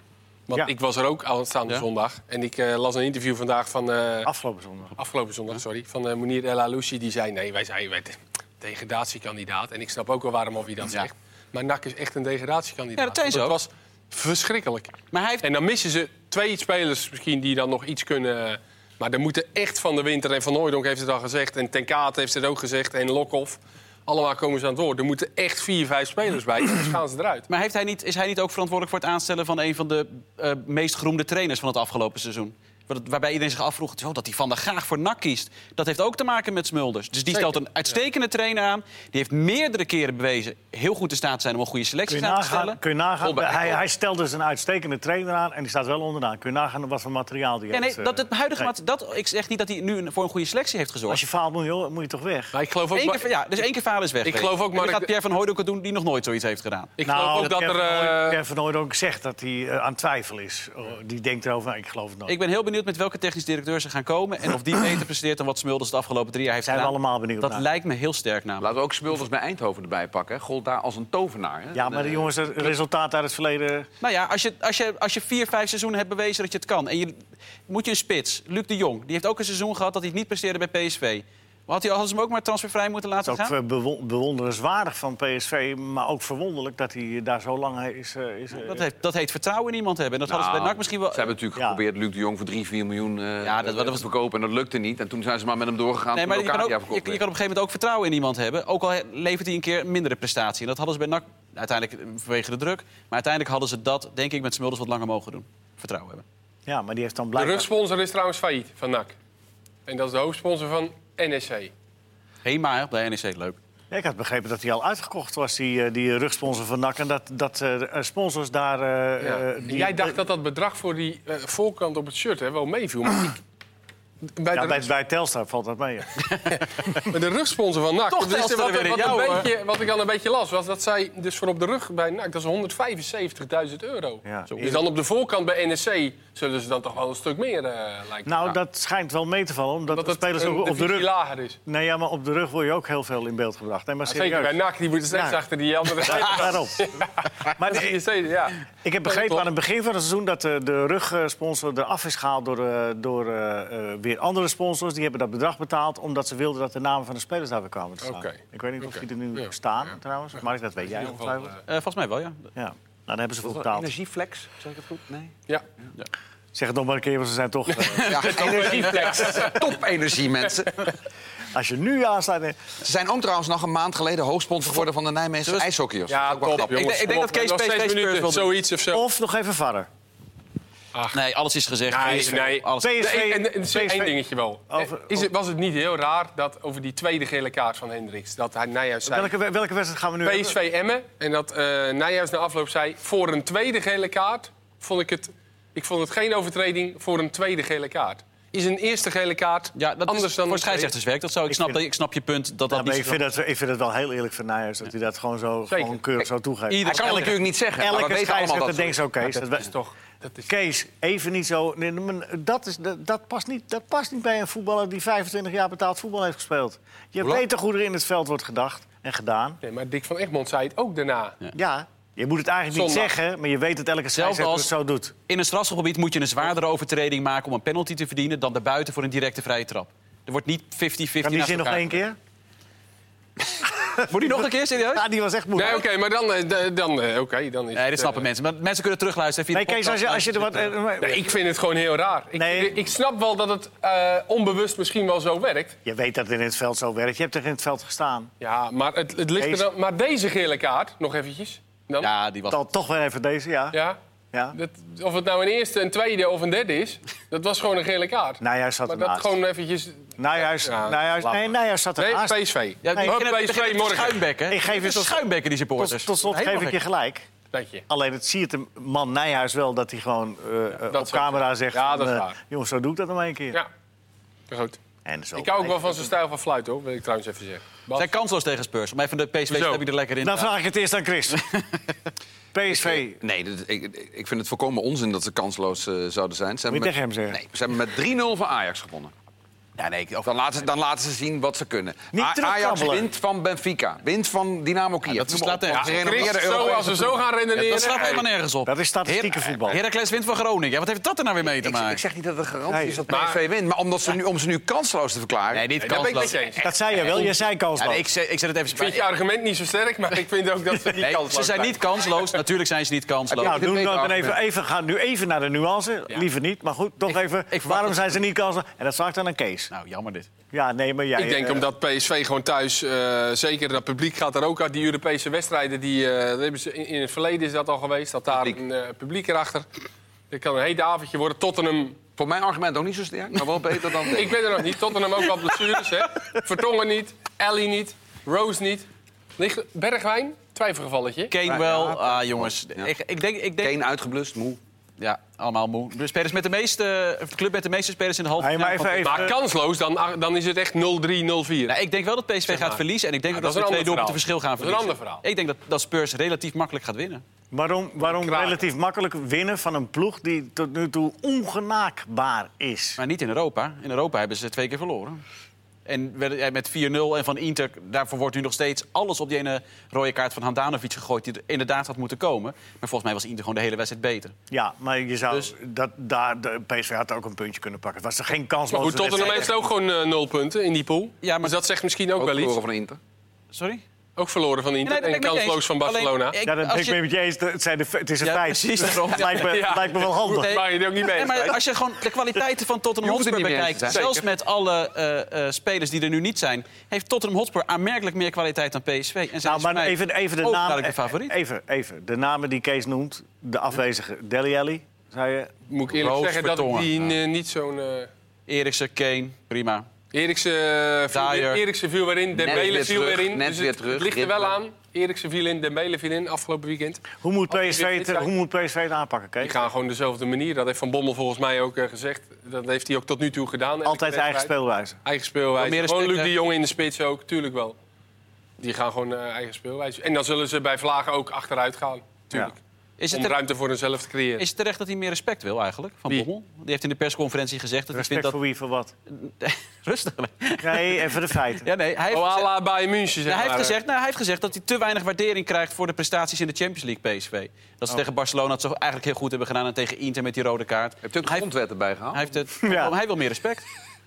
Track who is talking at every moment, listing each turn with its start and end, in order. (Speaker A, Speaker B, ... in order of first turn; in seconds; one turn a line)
Speaker A: 0.5-4.3
Speaker B: 4.2-4.9
Speaker A: 5.0-27.5
Speaker C: 13.0-13.6
Speaker C: 15.1-15.5
Speaker C: 27.5-42.8
Speaker B: 42.1-48.7
Speaker D: 43.2-43.8
Speaker C: 47.7-51.2
Speaker B: 51.1-52.5
Speaker A: 52.5-53.3
Speaker C: 52.9-56.9
Speaker A: 54.2-55.1
Speaker A: 57.0-58.4
Speaker B: 57.0-62.3
Speaker C: 62.2-68.7
Speaker B: 66.6-67.6
Speaker D: 68.6-72.4
Speaker B: 71.7-73.9
Speaker C: 74.0-83.5
Speaker B: 83.2-88.8
Speaker C: 88.5-91.3
Speaker D: 90.3-97.2
Speaker B: 91.5-91.8
Speaker C: 93.4-94.0
Speaker C: 96.1-106.2
Speaker B: 106.7-107.7
Speaker A: 107.3-109.1
Speaker A: 109.9-111.7
Speaker C: 112.4-113.6
Speaker B: 113.9-120.2
Speaker A: 119.2-123.4
Speaker A: 124.3-124.9
Speaker B: 124.5-126.2
Speaker A: 126.5-138.3
Speaker C: 128.1-129.5
Speaker B: 134.2-134.9
Speaker B: 138.2-141.1
Speaker A: 139.9-141.6
Speaker B: 141.7-144.6
Speaker A: 144.1-149.4
Speaker B: 145.1-145.4
Speaker B: 146.0-146.9
Speaker B: 147.6-148.0
Speaker B: 148.8-161.6
Speaker A: 158.0-159.5
Speaker A: 161.0-161.6
Speaker C: 161.7-162.5
Speaker B: 162.6-163.9
Speaker D: 163.4-165.3
Speaker B: 166.5-169.1
Speaker A: 167.7-169.7
Speaker D: 168.0-170.9
Speaker B: 171.5-172.6
Speaker D: 172.8-177.0
Speaker A: 176.1-179.0
Speaker C: 176.6-178.5
Speaker B: 178.9-179.9
Speaker C: 181.1-183.0
Speaker A: 181.9-189.3
Speaker B: 182.8-184.2
Speaker B: 184.7-185.3
Speaker B: 189.0-190.6
Speaker A: 190.2-200.9
Speaker C: 199.7-203.2
Speaker B: 201.5-201.8
Speaker B: 202.7-209.8
Speaker A: 205.7-206.0
Speaker C: 206.7-207.3
Speaker D: 206.8-209.0
Speaker A: 209.5-210.5
Speaker B: 210.5-219.6
Speaker A: 219.6-221.4
Speaker B: 221.5-225.1
Speaker A: 222.7-223.1
Speaker C: 224.1-224.7
Speaker C: 225.3-232.0
Speaker B: 231.2-232.2
Speaker B: 233.8-235.8
Speaker C: 234.0-235.1
Speaker A: 235.5-238.2
Speaker C: 237.7-240.7
Speaker B: 239.5-241.3
Speaker A: 241.0-245.8
Speaker B: 242.4-242.8
Speaker B: 245.8-248.3
Speaker A: 248.4-252.1
Speaker B: 249.4-249.7
Speaker C: 252.0-252.6
Speaker B: 252.5-253.8
Speaker A: 253.7-254.0
Speaker A: 254.5-261.4
Speaker B: 258.4-259.4
Speaker B: 260.2-262.4
Speaker A: 262.0-264.2
Speaker C: 262.8-266.8
Speaker B: 264.5-265.2
Speaker B: 265.8-267.3
Speaker A: 267.5-267.9
Speaker B: 267.9-273.6
Speaker A: 270.9-272.4
Speaker A: 274.5-274.8
Speaker B: 275.0-276.1
Speaker A: 275.4-278.1
Speaker C: 277.9-280.5
Speaker A: 279.5-279.8
Speaker B: 280.2-281.4
Speaker C: 281.4-281.8
Speaker B: 282.5-283.2
Speaker D: 282.7-289.1
Speaker B: 286.7-287.4
Speaker C: 289.8-290.3
Speaker D: 290.2-297.2
Speaker B: 292.1-293.1
Speaker C: 295.1-296.7
Speaker A: 295.7-298.2
Speaker C: 297.5-302.0
Speaker B: 298.6-299.8
Speaker D: 301.6-307.2
Speaker B: 302.7-303.0
Speaker A: 303.1-303.4
Speaker C: 305.5-306.4
Speaker A: 305.8-306.6
Speaker B: 306.6-308.0
Speaker C: 307.1-309.0
Speaker A: 308.7-312.4
Speaker C: 310.9-313.6
Speaker D: 313.3-314.4
Speaker B: 313.4-319.7
Speaker C: 317.5-318.1
Speaker C: 319.7-320.3
Speaker B: 320.5-321.7
Speaker A: 321.1-329.7
Speaker D: 328.3-328.6
Speaker A: 330.3-332.0
Speaker D: 332.2-334.4
Speaker A: 334.1-338.9
Speaker A: 339.4-341.3
Speaker C: 341.3-343.8
Speaker D: 341.4-342.9
Speaker D: 343.6-344.6
Speaker C: 345.0-349.3
Speaker B: 348.4-349.4
Speaker A: 349.0-351.8
Speaker C: 351.7-357.2
Speaker A: 352.5-355.2
Speaker B: 357.5-363.0
Speaker A: 358.0-358.6
Speaker C: 363.0-365.2
Speaker C: 365.9-374.3
Speaker B: 374.5-379.5
Speaker A: 378.7-382.6
Speaker C: 379.2-379.4
Speaker C: 381.2-381.6
Speaker D: 382.2-383.0
Speaker C: 383.5-383.8
Speaker A: 384.2-386.4
Speaker C: 384.8-387.0
Speaker B: 386.4-390.6
Speaker C: 388.2-401.3
Speaker A: 389.3-391.6
Speaker D: 393.0-394.2
Speaker A: 393.9-394.2
Speaker B: 399.4-405.5
Speaker A: 405.7-408.1
Speaker C: 405.9-406.9
Speaker C: 408.5-409.9
Speaker A: 410.1-418.3
Speaker C: 411.1-411.6
Speaker D: 412.3-414.6
Speaker B: 417.2-419.6
Speaker A: 419.4-424.5
Speaker B: 423.8-425.0
Speaker A: 425.0-427.8
Speaker C: 425.6-426.3
Speaker A: 428.6-432.6
Speaker C: 433.0-433.4
Speaker A: 433.1-434.4
Speaker C: 434.4-438.4
Speaker B: 437.9-438.9
Speaker C: 439.1-442.5
Speaker B: 440.6-441.7
Speaker A: 442.1-443.8
Speaker C: 443.3-451.4
Speaker D: 451.0-452.2
Speaker C: 452.1-453.6
Speaker B: 452.6-452.9